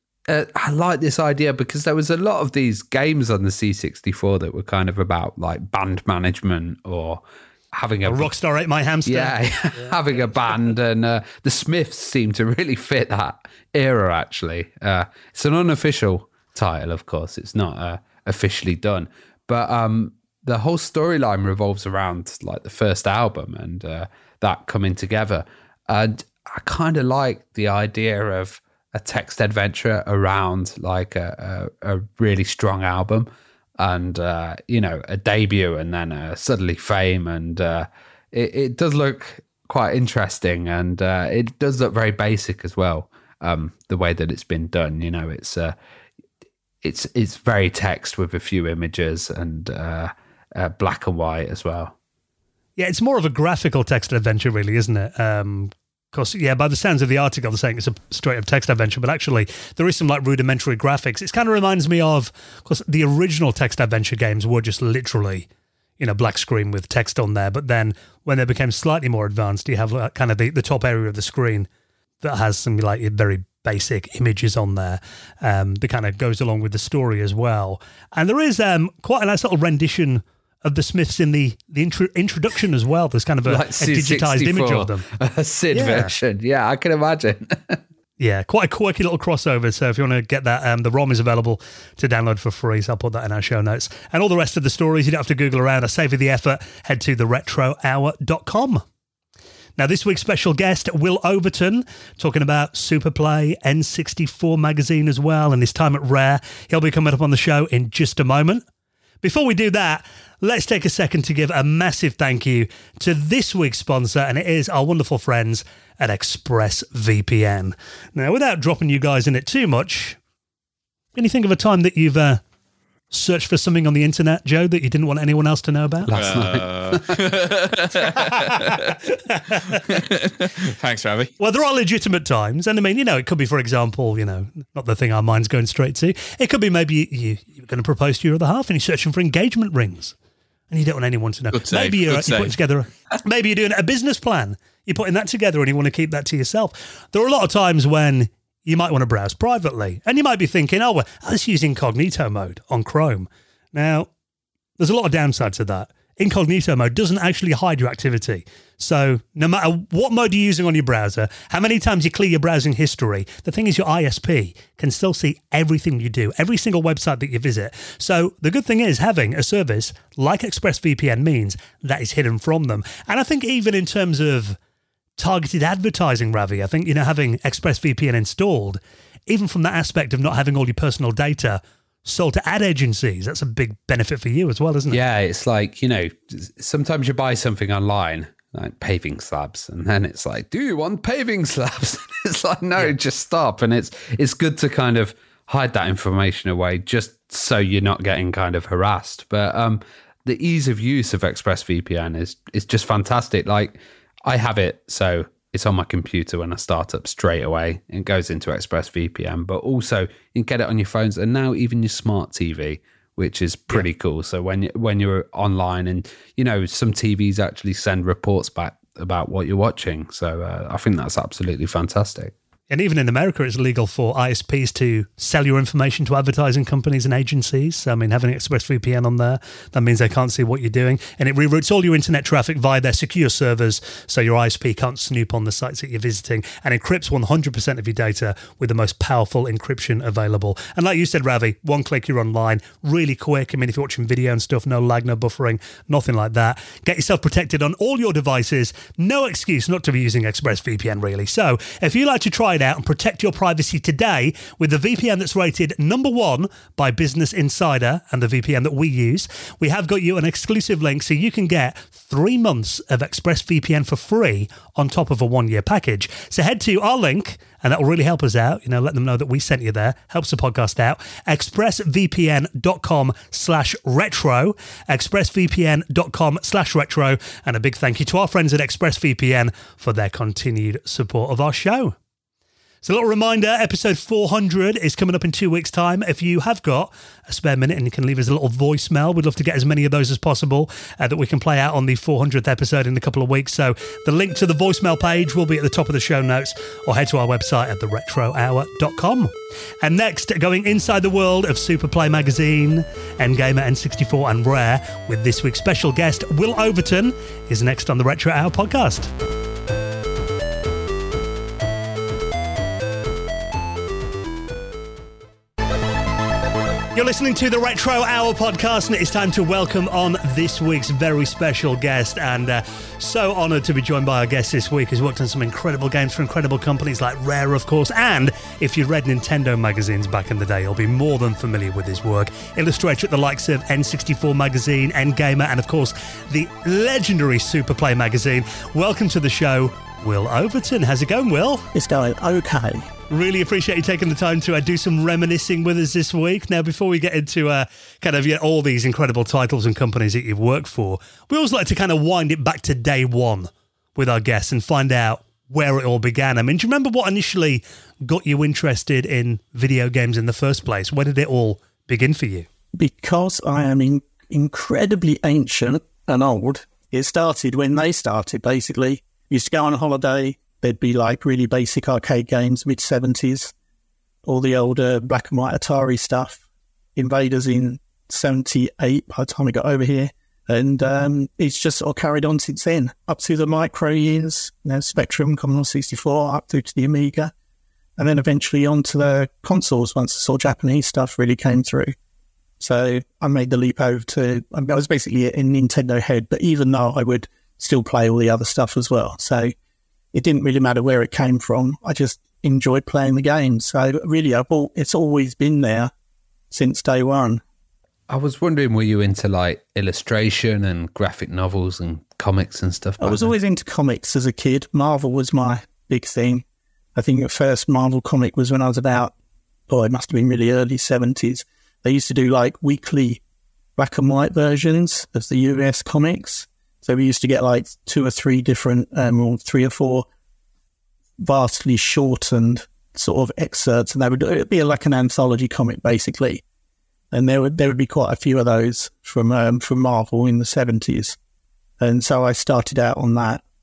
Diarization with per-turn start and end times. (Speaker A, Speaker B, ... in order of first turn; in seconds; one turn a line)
Speaker A: 0.3-8.3
Speaker B: 8.0-10.0
Speaker A: 9.1-33.3
Speaker A: 33.8-45.7
Speaker A: 46.8-51.9
Speaker B: 52.8-65.5
Speaker B: 66.0-71.7
Speaker B: 72.2-85.0
Speaker A: 83.4-87.8
Speaker B: 85.7-86.1
Speaker B: 88.2-98.8
Speaker B: 99.8-108.6
Speaker B: 109.2-120.2
Speaker B: 121.1-122.4
Speaker B: 123.1-126.1
Speaker A: 126.0-127.2
Speaker C: 126.2-128.9
Speaker B: 128.2-128.8
Speaker B: 129.3-129.8
Speaker C: 129.7-131.3
Speaker B: 131.4-140.1
Speaker B: 140.7-154.1
Speaker C: 141.5-142.6
Speaker B: 154.8-174.6
Speaker B: 175.2-185.0
Speaker A: 184.9-222.3
Speaker B: 222.7-281.9
Speaker B: 282.8-309.1
Speaker B: 316.9-341.7
Speaker D: 341.7-342.9
Speaker B: 343.1-362.5
Speaker D: 362.7-373.5
Speaker D: 374.2-376.4
Speaker D: 376.9-387.3
Speaker D: 388.0-391.9
Speaker D: 392.6-399.5
Speaker D: 400.1-405.9
Speaker D: 406.5-407.4
Speaker A: 408.1-413.3
Speaker D: 413.0-416.4
Speaker D: 416.9-419.1
Speaker D: 419.7-423.2
Speaker D: 423.8-430.1
Speaker D: 431.2-436.4
Speaker D: 437.1-441.2
Speaker D: 441.8-443.4